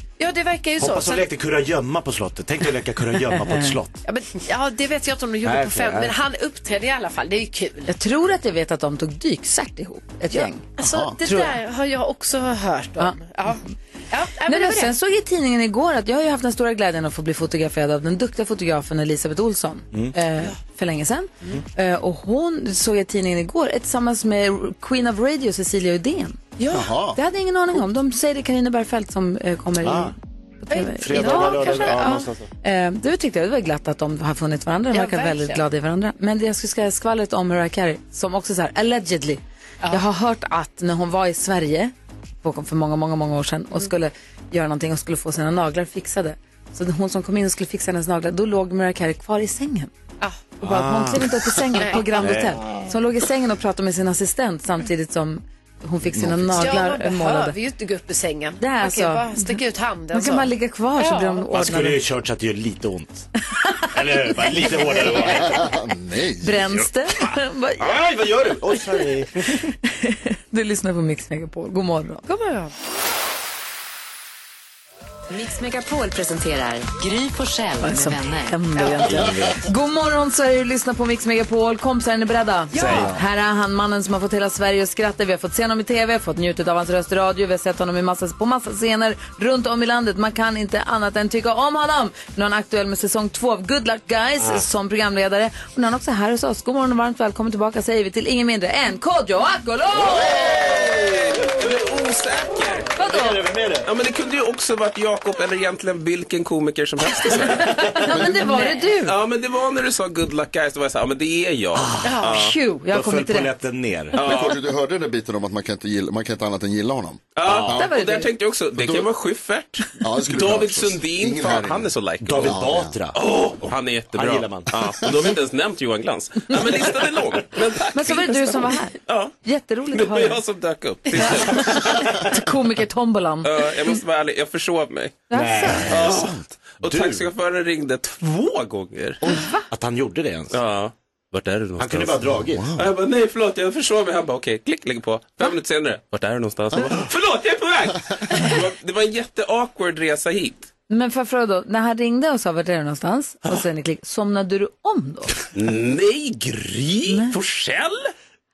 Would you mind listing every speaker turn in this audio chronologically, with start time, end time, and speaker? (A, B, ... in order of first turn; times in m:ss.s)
0:00.2-0:01.3 A
0:00.8-0:04.0 B
0:04.0-0:07.9 A
0:05.4-0:06.1 B
0:07.9-0:11.6 C
0:10.3-0:14.9 A
0:10.8-0:11.2 D
0:14.4-0:26.4 C
0:26.6-0:26.9 A
0:26.7-0:27.2 D
0:27.1-0:49.9 C
0:29.8-0:30.1 B
0:30.7-0:32.3 A
0:31.0-0:32.3 B
0:34.9-0:35.6 A
0:50.2-0:50.5 A
0:50.6-0:57.6 C
0:50.6-0:52.7 B
0:51.8-0:52.2 A
0:56.1-0:56.6 D
0:56.5-1:01.4 A
0:58.6-0:59.6 C
1:00.1-1:02.0 C
1:01.5-1:03.3 B
1:03.9-1:05.6 B
1:05.3-1:06.8 D
1:06.4-1:07.9 C
1:07.8-1:09.7 B
1:09.7-1:12.2 C
1:12.2-1:12.7 A
1:15.3-1:18.6 E
1:17.8-1:40.3 C
1:18.8-1:19.0 A
1:19.0-1:19.6 B
1:22.7-1:23.0 A
1:22.8-1:23.2 B
1:40.0-1:42.9 F
1:40.0-1:41.5 B
1:43.0-1:43.4 C
1:43.0-1:43.9 B
1:43.8-1:47.8 F
1:47.4-1:49.2 C
1:47.5-1:48.3 B
1:48.9-1:52.6 F
1:51.8-1:52.2 B
1:52.0-1:52.4 A
1:52.2-1:53.5 C
1:52.9-1:54.5 B
1:54.1-1:54.6 F
1:54.2-1:57.9 D
1:57.3-2:02.6 F
1:57.4-1:57.8 B
1:57.7-1:58.3 C
1:58.7-1:59.1 D
2:00.0-2:03.0 D
2:02.2-2:03.2 B
2:03.1-2:09.3 F
2:03.7-2:04.7 B
2:07.9-2:10.4 C
2:09.9-2:12.2 F
2:11.2-2:13.5 C
2:13.4-2:15.3 F
2:15.3-2:15.9 C
2:15.3-2:17.3 B
2:15.8-2:19.2 F
2:16.1-2:16.5 D
2:19.3-2:19.6 C
2:19.7-2:20.6 B
2:20.5-2:22.2 F
2:21.8-2:22.7 B
2:22.5-2:22.9 D
2:22.8-2:30.7 F
2:30.9-2:35.3 C
2:35.5-2:38.1 F
2:37.1-2:37.4 C